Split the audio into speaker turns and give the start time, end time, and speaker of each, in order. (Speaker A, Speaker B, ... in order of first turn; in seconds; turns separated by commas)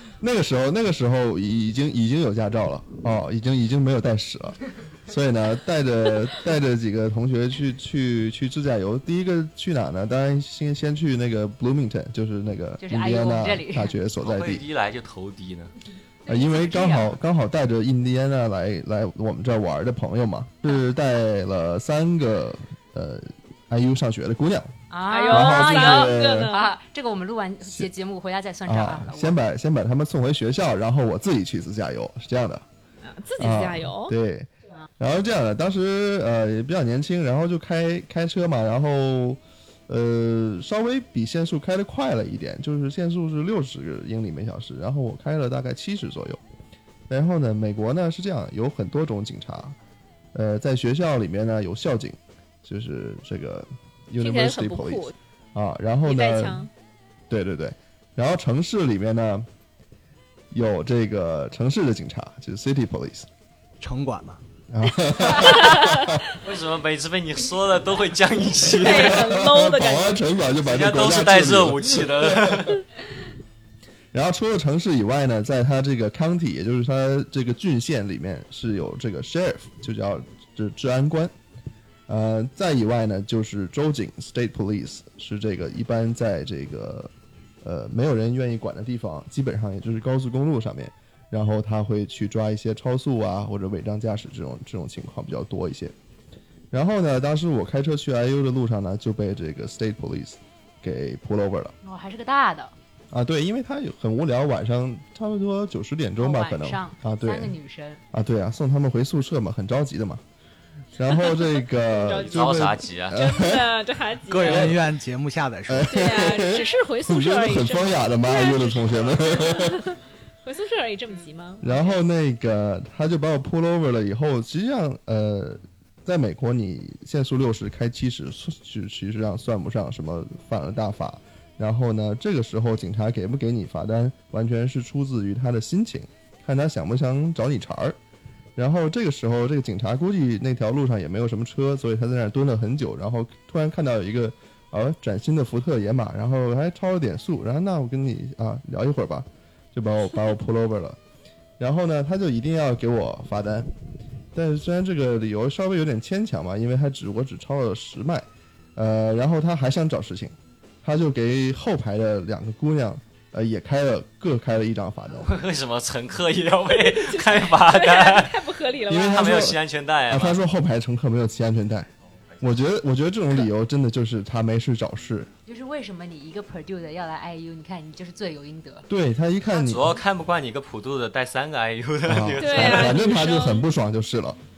Speaker A: 0.2-14.6, Speaker B: 12.8-13.9, Speaker C: 14.2-15.7, Speaker B: 16.2-17.1, Speaker A: 16.3-24.7, Speaker B: 24.9-29.4, Speaker D: 25.1-26.7, Speaker A: 25.3-26.5, Speaker A: 28.6-32.6, Speaker D: 33.0-34.1, Speaker A: 33.4-46.4, Speaker A: 47.1-49.8, Speaker A: 50.3-56.7, Speaker D: 54.2-55.1, Speaker D: 56.0-56.7, Speaker A: 57.3-59.5, Speaker A: 60.5-63.3, Speaker E: 63.8-64.4, Speaker A: 64.7-66.2, Speaker D: 65.4-66.2, Speaker C: 66.3-69.2, Speaker D: 68.7-70.2, Speaker A: 68.8-72.6, Speaker C: 70.6-72.8, Speaker A: 74.1-81.3, Speaker A: 82.1-87.1, Speaker A: 87.6-95.9, Speaker A: 96.7-101.7, Speaker B: 101.8-102.7, Speaker A: 103.1-107.5, Speaker B: 106.2-108.0, Speaker A: 108.1-110.2, Speaker A: 111.0-113.7, Speaker D: 111.9-112.6, Speaker C: 112.2-113.2, Speaker D: 113.1-114.8, Speaker E: 114.3-116.4, Speaker A: 114.4-114.8, Speaker A: 115.7-119.9, Speaker D: 115.9-122.0, Speaker A: 121.6-138.0, Speaker A: 138.6-151.0, Speaker A: 151.6-153.7, Speaker A: 154.3-158.2, Speaker A: 158.7-165.3, Speaker C: 165.2-170.4, Speaker D: 166.7-169.4, Speaker A: 168.9-171.9, Speaker A: 172.4-175.3, Speaker B: 175.5-178.9, Speaker A: 178.9-180.0, Speaker C: 179.5-183.0, Speaker A: 182.1-184.4, Speaker D: 182.4-183.6